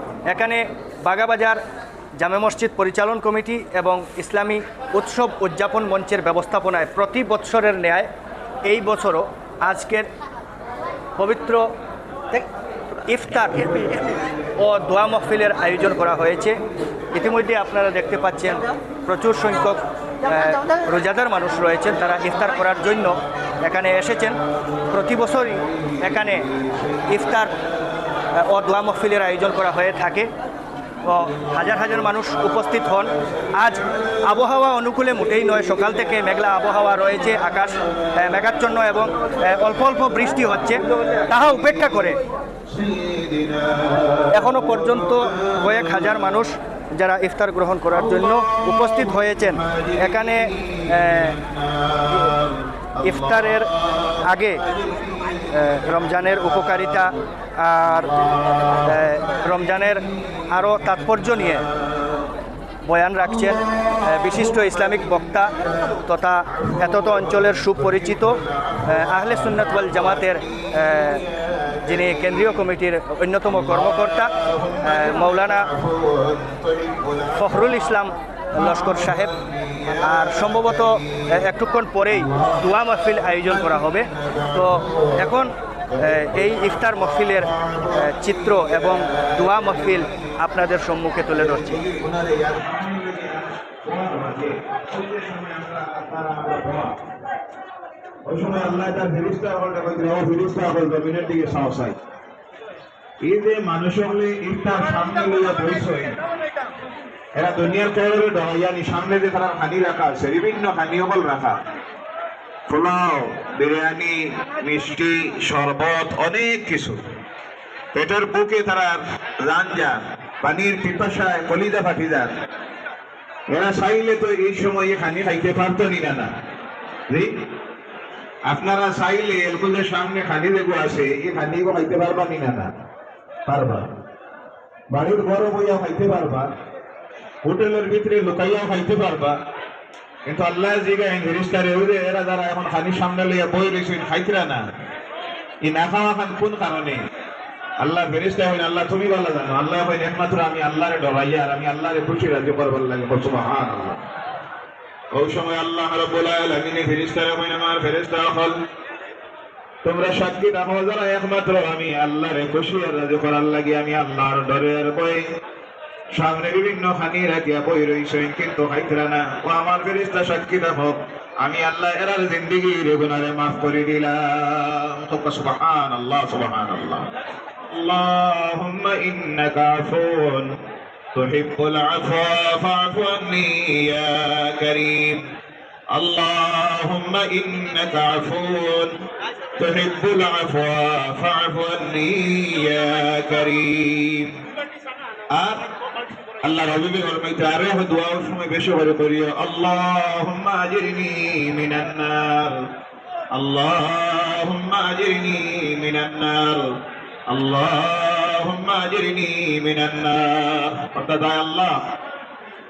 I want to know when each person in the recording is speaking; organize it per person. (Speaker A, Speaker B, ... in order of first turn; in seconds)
Speaker A: 0.3-1.6, 2.2-8.1, 8.7-10.1, 11.2-11.7, 13.1-16.6, 17.1-26.5, 27.1-27.5, 28.3-30.3, 31.0-42.2, 44.3-51.4, 53.0-53.7, 54.2-54.6, 55.5-58.1, 58.8-61.7, 62.8-71.2, 71.8-75.7, 77.3-79.4, 79.9-91.8
Speaker B: 26.6-27.0, 40.9-41.7, 42.7-46.3, 48.0-57.0, 58.0-60.4, 61.1-62.3, 63.5-65.9, 66.5-72.6, 73.5-77.8, 78.6-81.4, 82.2-82.6, 83.3-85.2, 85.9-90.3, 91.3-97.0, 98.2-102.0, 103.2-106.2, 107.3-111.6, 112.7-117.1, 117.9-122.3, 123.5-126.3, 127.1-127.5, 128.5-132.7, 133.5-133.9, 134.9-136.5, 137.4-139.4, 140.3-144.7, 145.6-147.0, 147.8-154.0, 155.1-158.6, 159.8-165.3, 166.1-177.1, 177.7-180.6, 181.1-185.2, 185.9-189.0, 189.6-194.4, 195.3-195.7, 196.4-202.7, 203.3-211.9